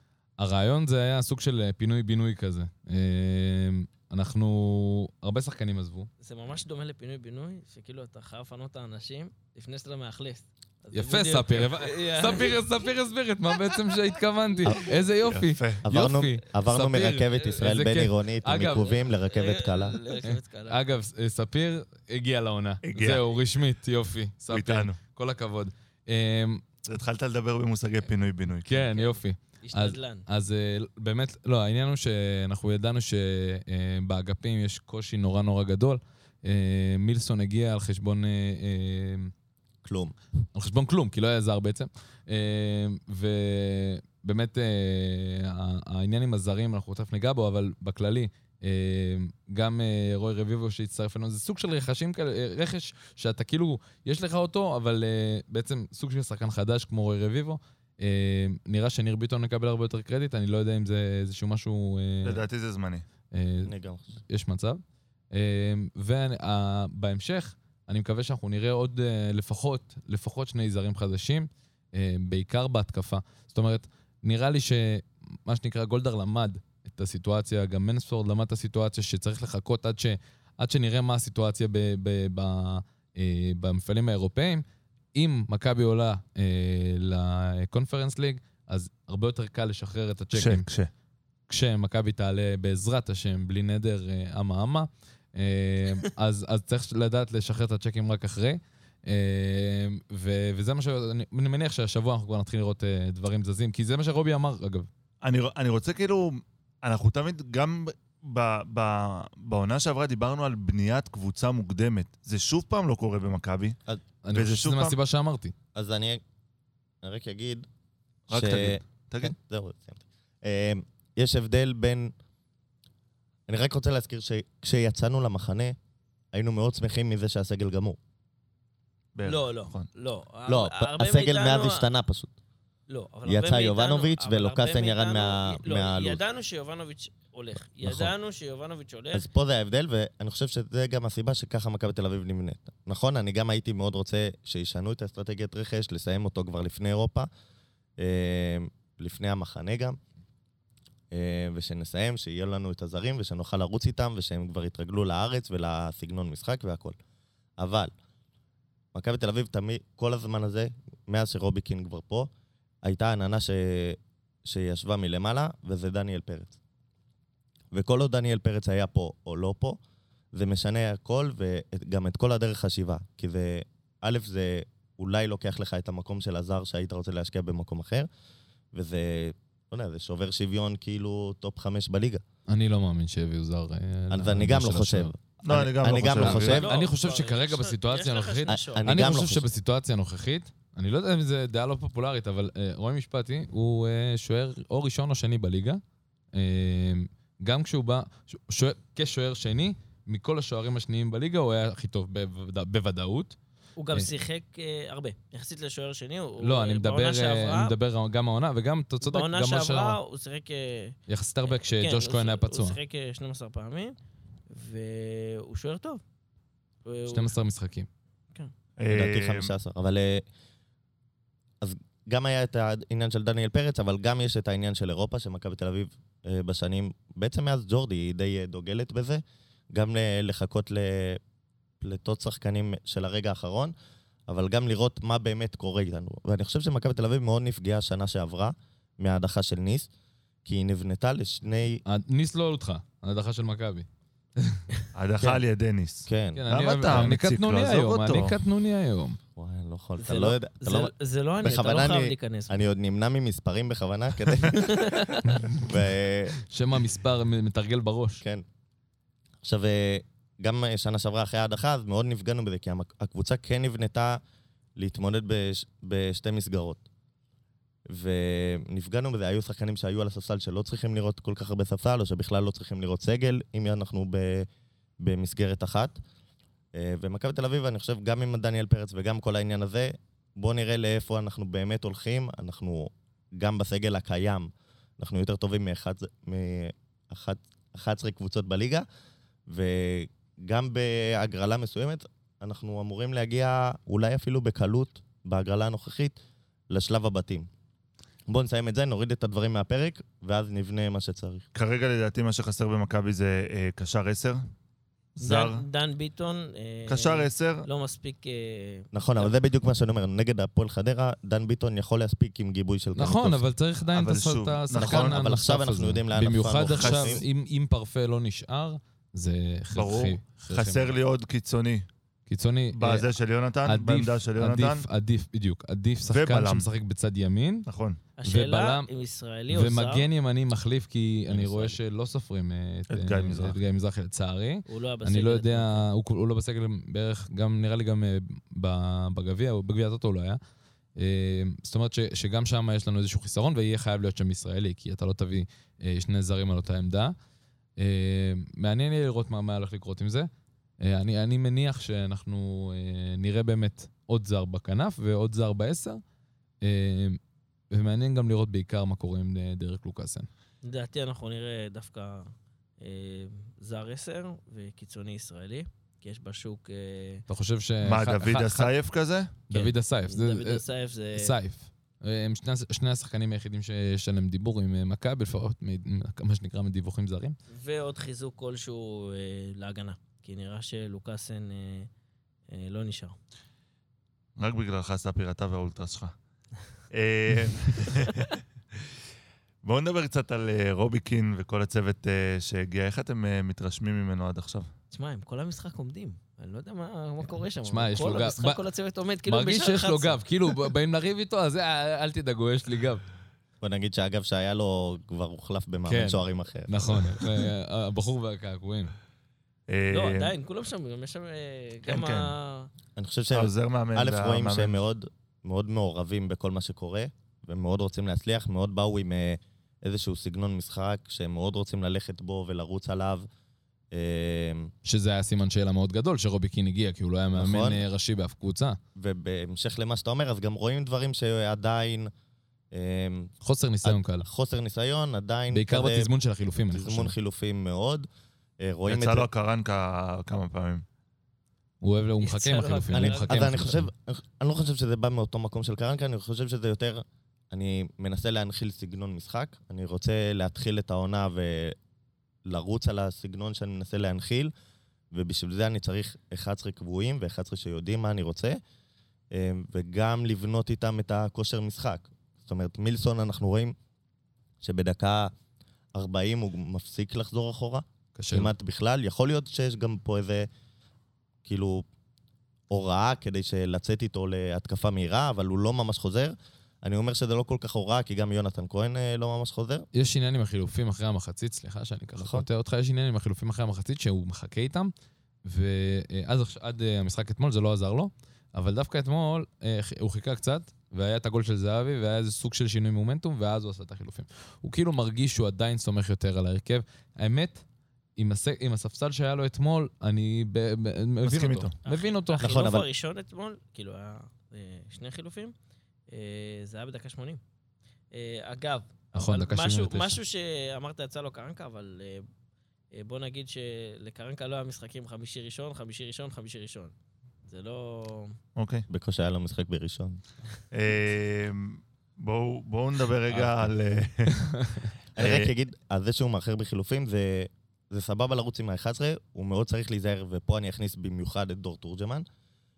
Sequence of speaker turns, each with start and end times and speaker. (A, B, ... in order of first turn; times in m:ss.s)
0:00.4-0:06.1 A
0:06.2-0:12.7 B
0:10.9-0:19.0 A
0:15.2-0:15.8 C
0:15.8-0:20.0 D
0:19.2-0:20.9 B
0:20.2-0:26.6 A
0:22.8-0:23.3 C
0:24.5-0:25.0 C
0:26.8-0:28.8 C
0:28.6-0:39.3 A
0:28.8-0:30.3 B
0:39.8-0:40.2 D
0:40.6-1:02.4 A
1:02.2-1:03.0 C
1:03.3-1:03.7 A
1:03.6-1:04.2 D
1:04.3-1:30.6 A
1:30.3-1:30.9 C
1:31.5-1:44.9 A
1:45.2-1:53.8 C
1:54.2-1:55.5 A
1:54.3-1:55.0 C
1:55.8-1:56.2 D
1:57.0-1:57.7 D
1:58.3-1:59.3 C
1:58.3-2:02.1 D
2:03.5-2:05.8 D
2:06.3-2:08.0 D
2:09.2-2:09.9 C
2:09.2-2:11.8 B
2:10.5-2:12.3 D
2:12.9-2:19.3 B
2:13.3-2:16.2 D
2:17.8-2:18.1 D
2:19.1-2:27.3 D
2:28.0-2:30.0 D
2:31.1-2:37.0 D
2:37.6-2:37.9 D
2:38.9-2:42.3 D
2:42.8-2:46.6 D
2:47.7-2:49.8 D
2:50.3-2:58.1 D
2:58.7-3:02.2 D
3:02.5-3:05.1 A
3:04.1-3:06.7 D
3:05.4-3:06.6 C
3:06.0-3:15.8 A
3:06.4-3:09.0 B
3:08.5-3:09.5 D
3:16.3-3:23.4 A
3:23.8-3:27.8 B
3:26.4-3:30.0 A
3:29.0-3:33.9 B
3:31.1-3:32.8 A
3:34.5-3:36.0 B
3:36.8-3:37.3 B
3:37.1-3:37.9 A
3:38.8-3:39.5 C
3:38.9-3:40.2 D
3:41.6-3:51.2 D
3:51.8-3:53.7 D
3:54.3-3:59.9 D
4:00.4-4:01.8 D
4:01.9-4:04.6 A
4:04.9-4:08.4 C
4:06.1-4:07.1 D
4:06.4-4:09.2 A
4:09.4-4:14.8 D
4:10.0-4:12.6 B
4:14.5-4:15.4 B
4:15.5-4:16.4 D
4:16.5-4:18.2 A
4:19.4-4:24.2 D
4:24.8-4:26.8 D
4:27.9-4:34.5 D
4:35.0-4:36.0 D
4:36.7-4:48.8 D
4:49.5-4:56.2 D
4:56.7-4:57.5 D
4:58.3-5:01.4 D
5:01.5-5:04.4 C
5:05.2-5:05.6 C
5:05.2-5:09.3 B
5:06.9-5:07.7 C
5:08.9-5:13.5 D
5:13.0-5:21.0 A
5:13.9-5:15.2 C
5:14.7-5:17.2 D
5:16.7-5:17.2 C
5:19.7-5:21.9 C
5:22.3-5:23.1 A
5:22.7-5:24.9 C
5:23.7-5:27.7 A
5:26.1-5:26.7 C
5:27.7-5:28.0 C
5:28.2-5:30.1 B
5:28.2-5:28.9 A
5:29.5-5:40.4 A
5:31.3-5:31.8 B
5:32.9-5:33.6 C
5:34.7-5:35.9 B
5:41.0-5:47.2 A
5:47.8-5:50.3 A
5:50.8-5:56.0 A
5:56.6-5:57.2 A
5:57.7-6:00.3 A
6:00.6-6:07.2 B
6:07.3-6:08.7 A
6:07.8-6:09.3 C
6:09.5-6:10.6 A
6:09.5-6:11.4 B
6:11.2-6:17.4 A
6:17.5-6:21.9 B
6:22.5-6:23.2 B
6:24.4-6:26.1 C
6:26.9-6:28.4 C
6:29.6-6:34.7 C
6:34.9-6:40.7 B
6:37.7-6:38.6 A
6:39.3-6:43.0 A
6:43.6-6:47.2 D
6:45.9-6:48.9 A
6:49.7-6:50.3 C
6:49.9-6:52.7 B
6:51.9-6:52.3 C
6:53.0-7:03.3 D
6:53.3-6:54.8 C
7:03.9-7:04.7 D
7:04.8-7:08.8 A
7:07.3-7:07.8 D
7:09.0-7:12.1 D
7:12.7-7:13.3 D
7:13.4-7:14.3 A
7:13.8-7:16.1 D
7:15.5-7:17.1 A
7:16.7-7:18.1 D
7:18.6-7:19.3 D
7:18.9-7:20.8 C
7:21.8-7:23.9 A
7:22.2-7:23.5 B
7:22.9-7:31.8 D
7:32.5-7:34.5 D
7:35.1-7:38.6 D
7:39.3-7:43.8 D
7:44.6-7:45.3 D
7:45.9-7:50.5 D
7:48.2-7:48.5 A
7:51.4-7:51.8 D
7:52.7-7:59.9 D
7:59.9-8:04.9 A
8:02.2-8:02.5 D
8:05.4-8:17.6 A
8:18.2-8:22.5 A
8:21.2-8:21.8 C
8:21.8-8:25.5 B
8:22.4-8:22.9 D
8:26.1-8:27.4 B
8:28.1-8:32.3 B
8:29.2-8:30.2 A
8:32.9-8:36.9 B
8:37.5-8:38.4 B
8:38.6-8:38.8 C
8:38.9-8:40.2 D
8:40.7-8:44.6 C
8:45.2-8:52.3 D
8:45.2-8:45.5 C